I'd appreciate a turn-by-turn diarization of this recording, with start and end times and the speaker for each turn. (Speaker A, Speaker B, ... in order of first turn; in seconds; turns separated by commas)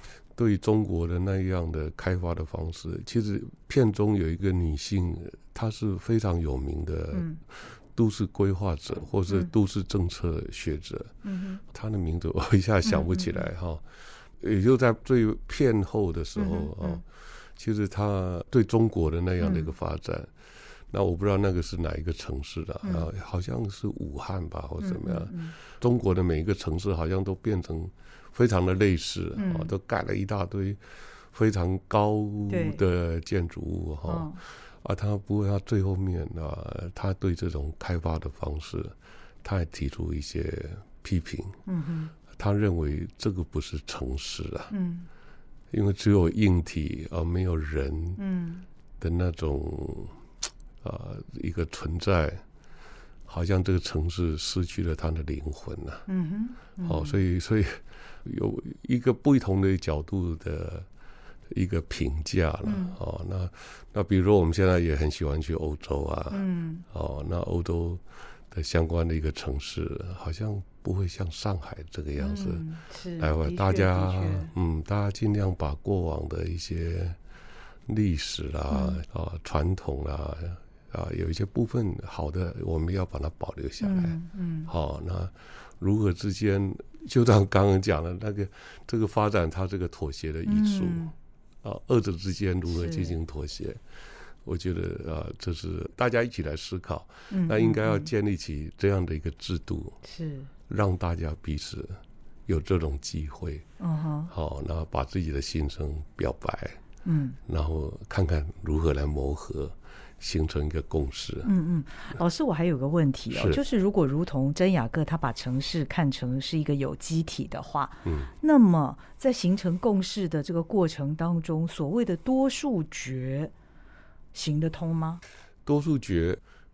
Speaker A: 0.3-20.3, Speaker B: 7.1-7.4, Speaker B: 11.2-11.6, Speaker B: 12.8-13.5, Speaker B: 16.4-17.0, Speaker B: 19.4-19.7, Speaker A: 20.9-41.6, Speaker B: 24.8-25.5, Speaker B: 29.4-29.7, Speaker B: 32.5-32.8, Speaker B: 34.1-34.4, Speaker B: 41.7-42.1, Speaker A: 42.3-44.7, Speaker B: 44.7-45.1, Speaker A: 45.7-48.2, Speaker B: 48.2-48.7, Speaker A: 49.0-50.2, Speaker A: 50.8-52.4, Speaker A: 53.3-56.1, Speaker B: 56.1-57.2, Speaker A: 56.8-60.9, Speaker A: 61.5-72.7, Speaker B: 62.6-63.0, Speaker B: 66.3-66.9, Speaker B: 72.2-74.5, Speaker A: 73.2-77.2, Speaker A: 77.9-91.1, Speaker B: 78.7-79.0, Speaker B: 83.8-84.7, Speaker B: 90.5-91.1, Speaker A: 91.6-93.8, Speaker B: 92.7-93.2, Speaker A: 94.5-100.0, Speaker B: 97.3-98.1, Speaker B: 100.0-100.5, Speaker A: 100.7-103.7, Speaker B: 103.8-104.3, Speaker A: 104.3-106.8, Speaker B: 107.0-107.4, Speaker A: 107.5-111.5, Speaker B: 111.4-123.5, Speaker A: 113.3-113.6, Speaker A: 118.0-118.3, Speaker B: 124.3-125.2, Speaker A: 125.7-126.4